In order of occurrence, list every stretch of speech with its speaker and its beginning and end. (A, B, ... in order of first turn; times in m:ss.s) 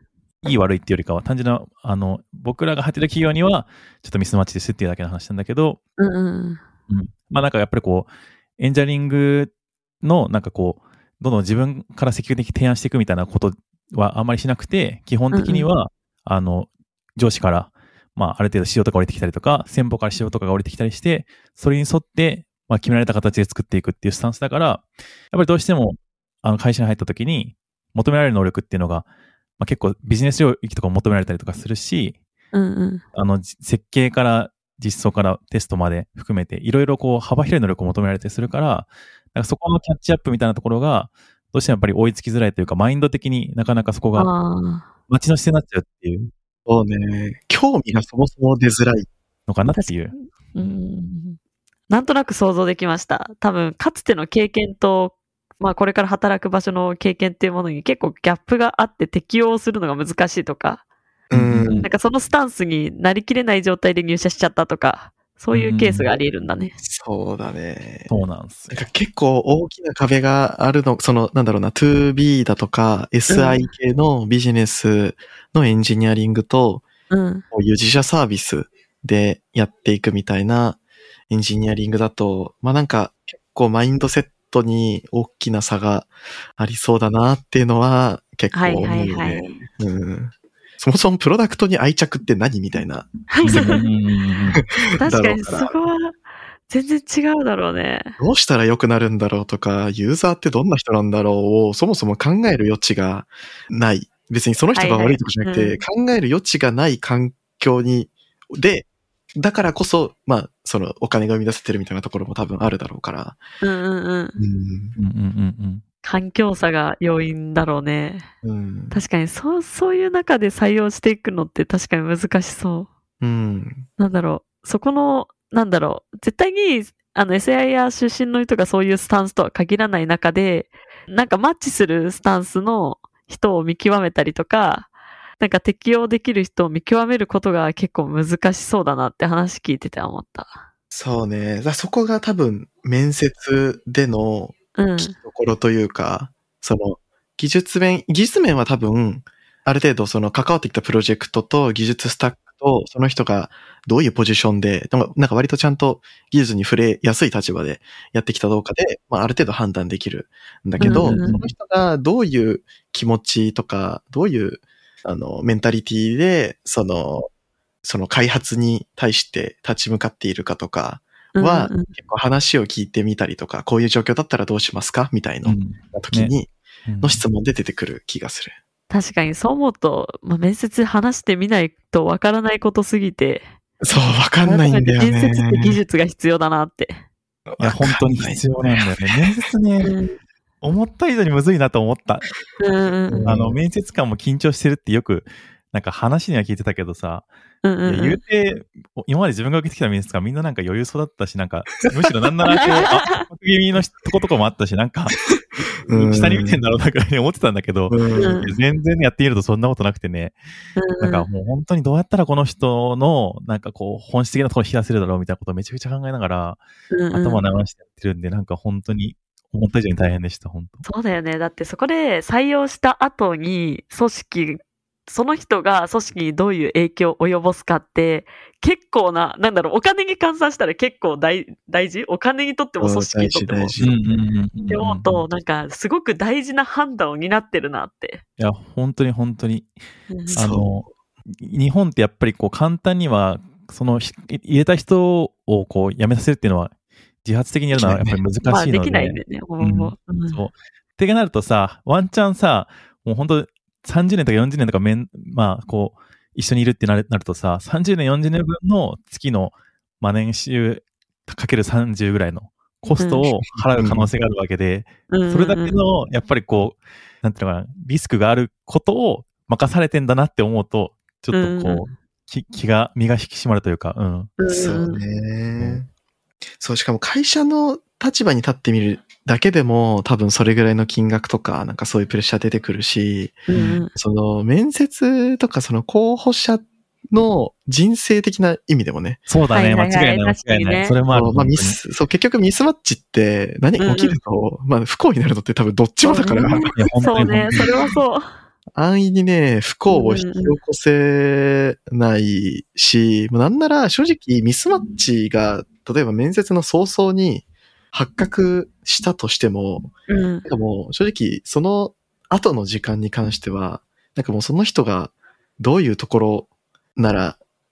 0:00.4-0:05.8 A
0:06.0-0:06.6 B
0:06.9-0:29.1 A
0:15.3-0:15.7 B
0:29.6-0:32.2 A
0:32.5-0:33.0 B
0:33.1-0:44.3 A
0:44.2-0:44.9 B
0:45.1-0:46.3 A
0:46.7-0:49.1 C
0:49.5-0:50.8 A
0:49.7-0:51.4 B
0:51.9-1:00.8 B
1:01.3-1:01.9 C
1:01.3-1:01.9 A
1:01.8-1:06.8 B
1:05.5-1:06.1 A
1:06.8-1:08.1 C
1:08.1-1:08.8 A
1:08.7-1:16.9 C
1:13.3-1:13.7 B
1:17.1-1:17.4 B
1:17.5-1:20.8 C
1:21.3-1:33.7 C
1:28.5-1:29.6 B
1:33.3-1:33.8 B
1:33.4-1:34.6 A
1:34.8-1:35.7 C
1:35.0-1:36.2 B
1:36.7-1:38.2 B
1:38.2-1:53.4 C
1:44.8-1:45.8 B
1:53.6-1:54.4 B
1:54.4-1:55.0 C
1:55.0-1:55.8 A
1:56.0-1:58.3 B
1:58.4-1:59.0 C
1:58.9-2:02.9 B
2:03.2-2:03.9 C
2:04.0-2:14.9 B
2:15.4-2:20.6 B
2:20.9-2:47.3 C
2:24.8-2:25.2 B
2:40.8-2:41.4 B
2:40.8-2:41.4 A
2:47.8-2:56.5 C
2:51.4-2:51.9 B
2:55.5-2:56.3 A
2:56.9-2:57.2 A
2:57.0-2:58.6 C
2:58.9-3:03.5 B
3:03.8-3:05.8 C
3:04.4-3:07.0 B
3:07.5-3:09.4 C
3:07.6-3:09.9 A
3:09.8-3:10.2 B
3:10.6-3:12.4 A
3:12.6-3:13.3 B
3:13.1-3:13.6 C
3:13.2-3:17.3 A
3:17.6-3:18.2 B
3:17.9-3:30.4 A
3:22.5-3:23.2 B
3:25.9-3:26.6 C
3:27.9-3:28.4 C
3:28.2-3:28.6 B
3:30.8-3:31.3 B
3:31.0-3:36.6 A
3:36.9-3:37.4 B
3:37.1-3:40.8 A
3:40.8-3:53.8 B
3:52.8-3:54.0 C
3:53.8-3:55.2 A
3:54.7-3:58.2 B
3:58.4-3:59.7 A
4:00.1-4:00.4 B
4:00.3-4:06.7 A
4:00.3-4:00.7 C
4:07.2-4:34.3 A
4:07.7-4:08.2 C
4:08.4-4:10.4 B
4:23.0-4:23.3 B
4:23.3-4:24.1 C
4:25.1-4:25.8 B
4:31.3-4:31.9 B
4:34.4-4:35.0 B
4:34.5-4:35.9 C
4:36.6-4:43.4 C
4:43.5-4:43.9 B
4:43.5-4:43.8 A
4:44.0-4:49.2 C
4:49.3-4:51.8 A
4:49.5-4:50.9 B
4:51.1-4:56.8 C
4:53.8-4:54.2 B
4:56.0-4:58.3 B
4:56.7-4:57.7 A
4:58.7-5:09.9 C
4:59.9-5:00.6 B
5:10.1-5:10.5 B
5:10.4-5:17.4 C